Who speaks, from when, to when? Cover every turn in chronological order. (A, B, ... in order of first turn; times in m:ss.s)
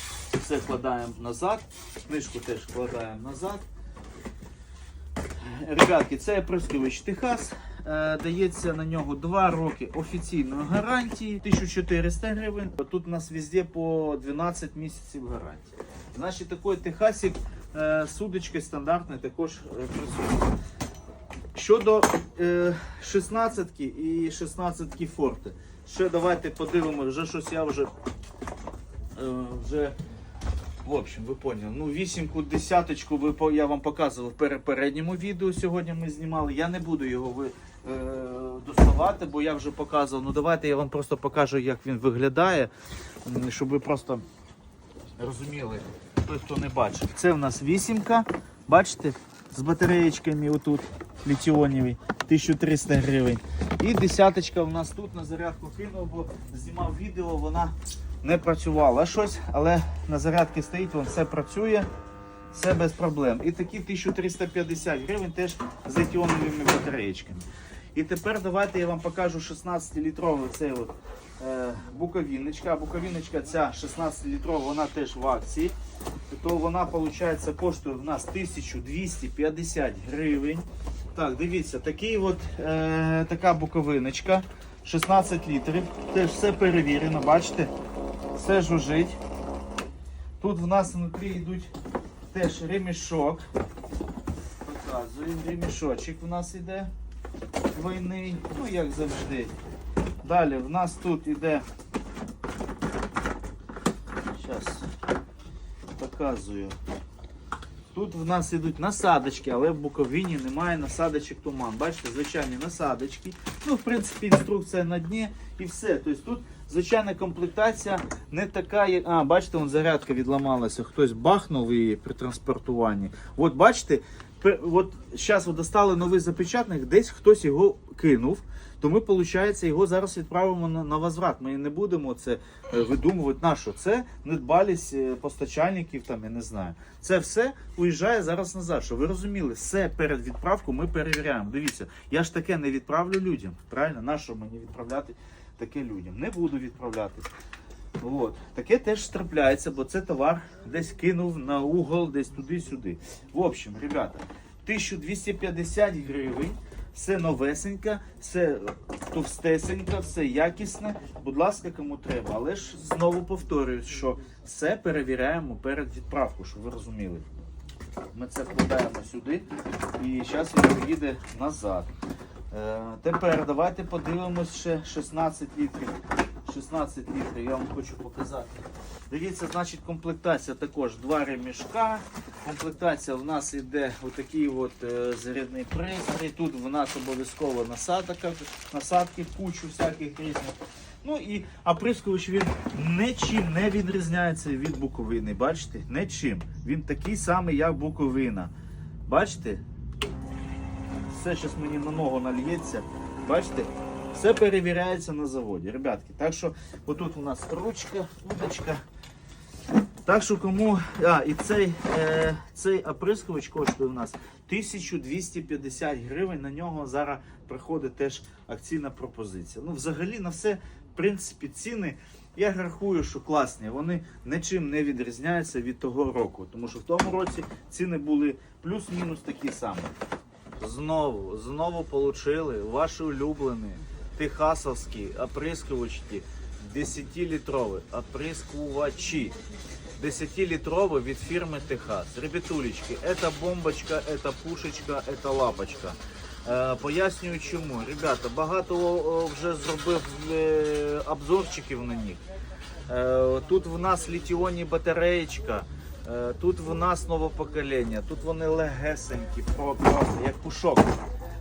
0:00.3-0:03.6 A
0:05.4-0:20.5 A
0:21.5-0:27.9 A
0:29.2-0:30.0 A
0:30.8-0:42.7 A
0:43.2-0:44.2 A
0:45.2-1:01.9 A
1:02.5-1:15.8 A
1:16.3-1:27.7 A
1:28.3-1:29.2 A
1:30.4-1:31.7 A
1:32.3-1:33.5 A
1:34.6-1:36.9 A
1:37.7-1:39.5 A
1:40.2-1:41.6 A
1:44.3-1:44.9 A
1:46.0-1:46.8 A
1:47.9-2:27.3 A
2:28.0-2:47.2 A
2:48.1-2:49.4 A
2:50.0-2:51.9 A
2:52.5-3:18.5 A
3:19.1-3:19.6 A
3:21.1-3:28.8 A
3:30.1-3:49.9 A
3:50.6-3:59.4 A
4:00.0-4:12.2 A
4:12.9-4:20.9 A